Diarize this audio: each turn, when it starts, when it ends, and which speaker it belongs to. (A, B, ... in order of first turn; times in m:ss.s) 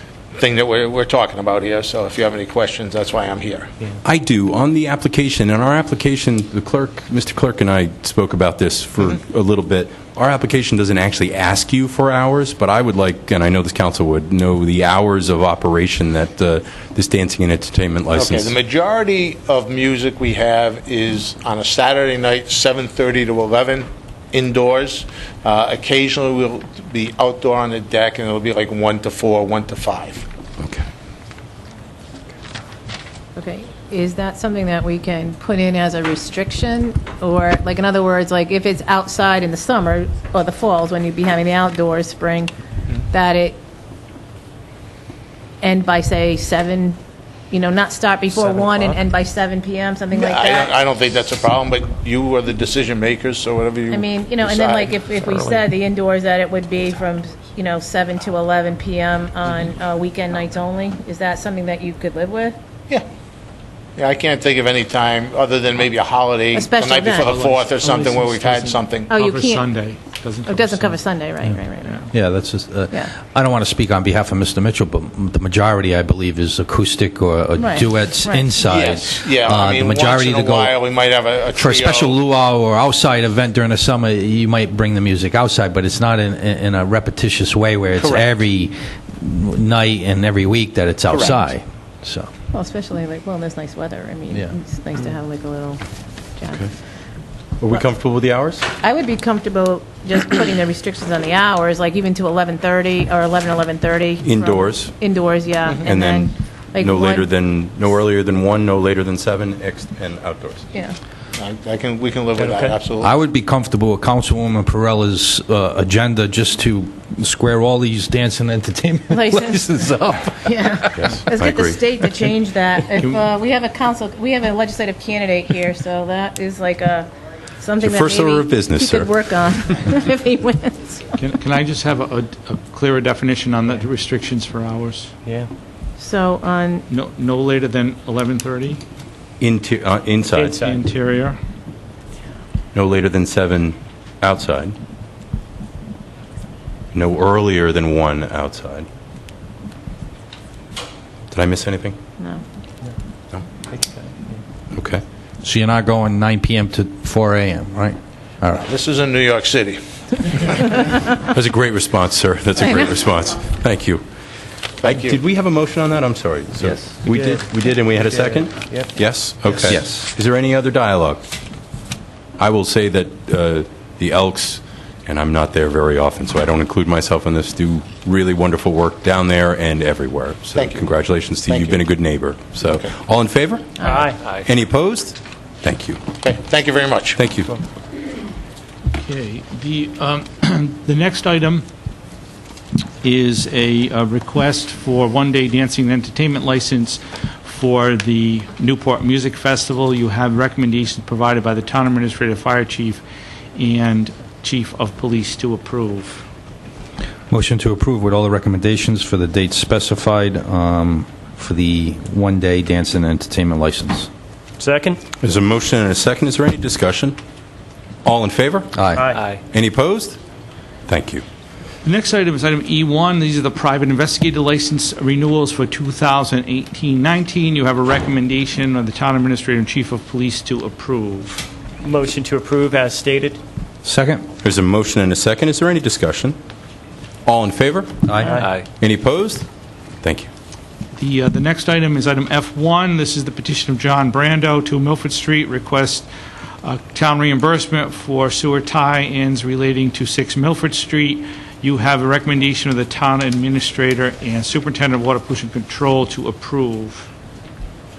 0:00.4-0:03.7 A
0:04.0-0:18.5 B
0:18.1-0:30.2 A
0:30.6-0:30.9 B
0:33.4-0:42.5 C
0:43.1-0:43.6 C
0:45.6-0:47.0 C
0:47.5-0:50.8 C
0:50.1-0:55.0 A
0:53.9-1:02.6 C
1:04.0-1:09.1 A
1:06.5-1:07.4 C
1:07.3-1:11.0 D
1:09.1-1:09.7 C
1:10.4-1:12.1 C
1:12.1-1:20.8 E
1:17.6-1:18.6 C
1:18.6-1:22.2 A
1:21.5-1:32.3 E
1:28.0-1:28.2 A
1:32.5-1:35.8 C
1:36.4-1:36.7 C
1:37.6-1:38.6 B
1:38.8-1:47.3 C
1:44.2-1:44.9 B
1:45.8-1:50.7 B
1:51.3-1:53.1 A
1:52.4-1:52.8 F
1:53.0-2:01.1 E
1:59.1-1:59.9 C
2:00.4-2:11.2 C
2:00.9-2:01.8 B
2:07.8-2:09.1 B
2:11.2-2:15.1 D
2:16.0-2:16.8 C
2:16.9-2:18.8 D
2:19.4-2:20.6 B
2:20.4-2:20.8 F
2:20.4-2:21.4 D
2:22.7-2:24.8 B
2:26.9-2:28.9 B
2:31.3-2:32.0 B
2:32.2-2:32.4 C
2:34.7-2:35.0 B
2:35.4-2:38.6 E
2:38.6-2:40.8 A
2:41.2-2:44.0 B
2:44.8-2:51.2 B
2:44.8-2:45.2 A
2:49.6-2:50.1 E
2:52.4-3:06.0 B
3:00.6-3:00.9 A
3:01.4-3:01.8 A
3:03.8-3:04.1 C
3:03.8-3:04.2 F
3:06.2-3:07.2 A
3:07.2-3:07.6 B
3:09.0-3:11.6 D
3:13.0-3:23.0 D
3:23.5-3:26.2 D
3:27.3-3:34.1 E
3:34.6-3:35.0 F
3:35.2-3:37.2 B
3:38.0-3:38.8 B
3:38.7-3:39.2 E
3:38.9-3:39.2 F
3:39.4-3:40.2 B
3:40.9-3:41.2 B
3:41.8-3:51.4 D
3:51.8-3:53.4 F
3:53.8-3:54.2 E
3:54.4-3:56.4 B
3:57.2-3:58.1 B
3:58.0-3:58.4 E
3:58.2-3:58.5 F
3:58.7-3:59.5 B
4:00.0-4:00.3 B
4:01.0-4:06.1 D
4:06.6-4:17.1 D